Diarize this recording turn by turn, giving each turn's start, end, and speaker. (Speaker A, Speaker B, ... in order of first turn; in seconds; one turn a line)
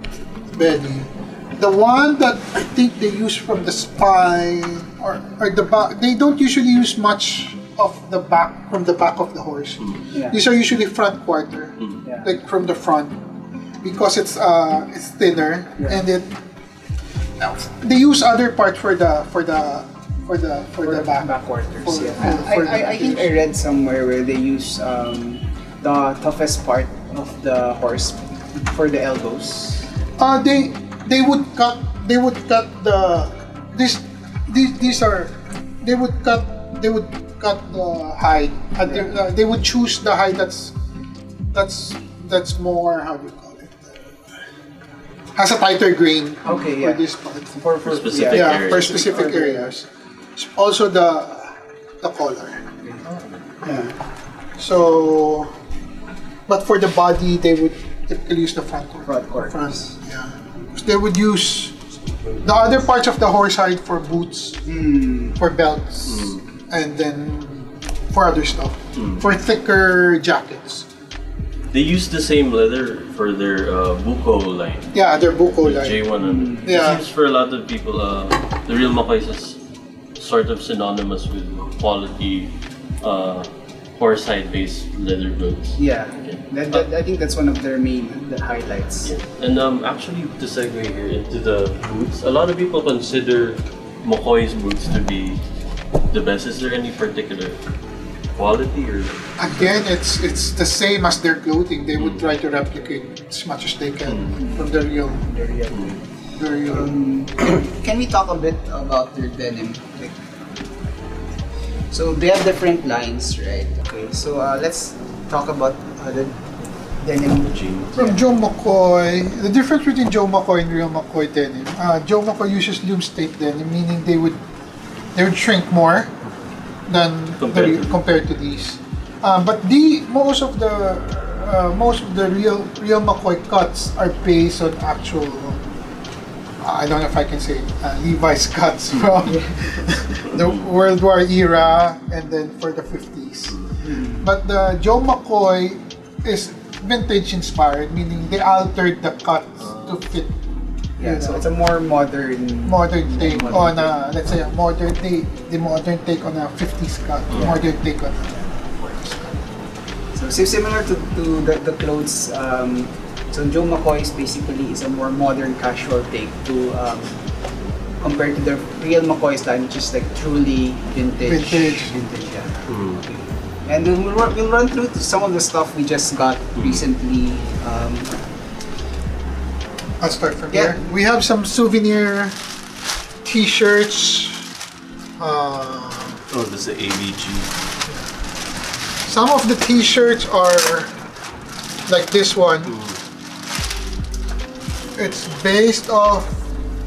Speaker A: 0.5-13.3
Speaker B: 10.1-10.4
Speaker B: 12.0-12.3
Speaker A: 13.8-16.4
Speaker A: 17.4-23.3
Speaker B: 20.8-29.9
Speaker A: 30.2-40.8
Speaker A: 41.5-44.2
Speaker A: 45.4-47.6
Speaker B: 46.5-49.7
Speaker C: 47.8-49.1
Speaker A: 48.3-52.7
Speaker B: 53.6-54.0
Speaker A: 54.6-55.5
Speaker A: 56.5-61.8
Speaker B: 59.1-60.0
Speaker A: 62.4-64.7
Speaker B: 64.7-65.4
Speaker A: 65.4-70.9
Speaker C: 66.1-66.4
Speaker C: 69.0-69.2
Speaker C: 71.7-74.9
Speaker A: 74.9-76.1
Speaker C: 75.6-79.6
Speaker B: 76.2-76.7
Speaker A: 76.6-77.0
Speaker C: 80.2-86.8
Speaker B: 85.8-89.1
Speaker C: 89.0-95.4
Speaker C: 96.1-97.6
Speaker C: 98.3-99.8
Speaker A: 99.4-105.2
Speaker C: 104.1-104.3
Speaker B: 104.4-106.0
Speaker A: 106.4-107.0
Speaker B: 106.6-110.2
Speaker B: 111.9-118.2
Speaker C: 117.5-118.0
Speaker A: 118.0-124.4
Speaker A: 125.1-126.1
Speaker A: 126.9-135.7
Speaker C: 127.4-128.0
Speaker A: 136.6-143.6
Speaker B: 139.2-139.6
Speaker B: 143.8-144.3
Speaker A: 144.2-150.3
Speaker C: 149.6-150.0
Speaker B: 151.0-154.0
Speaker A: 151.0-151.4
Speaker A: 152.7-159.5
Speaker C: 157.3-157.6
Speaker B: 160.1-167.2
Speaker B: 168.0-178.2
Speaker A: 171.2-171.9
Speaker C: 172.7-173.0
Speaker C: 176.6-176.8
Speaker A: 180.0-182.4
Speaker B: 180.5-180.8
Speaker A: 183.2-184.5
Speaker A: 185.2-186.2
Speaker C: 186.3-187.5
Speaker A: 189.1-190.9
Speaker A: 191.9-192.8
Speaker C: 192.7-193.0
Speaker A: 195.0-196.4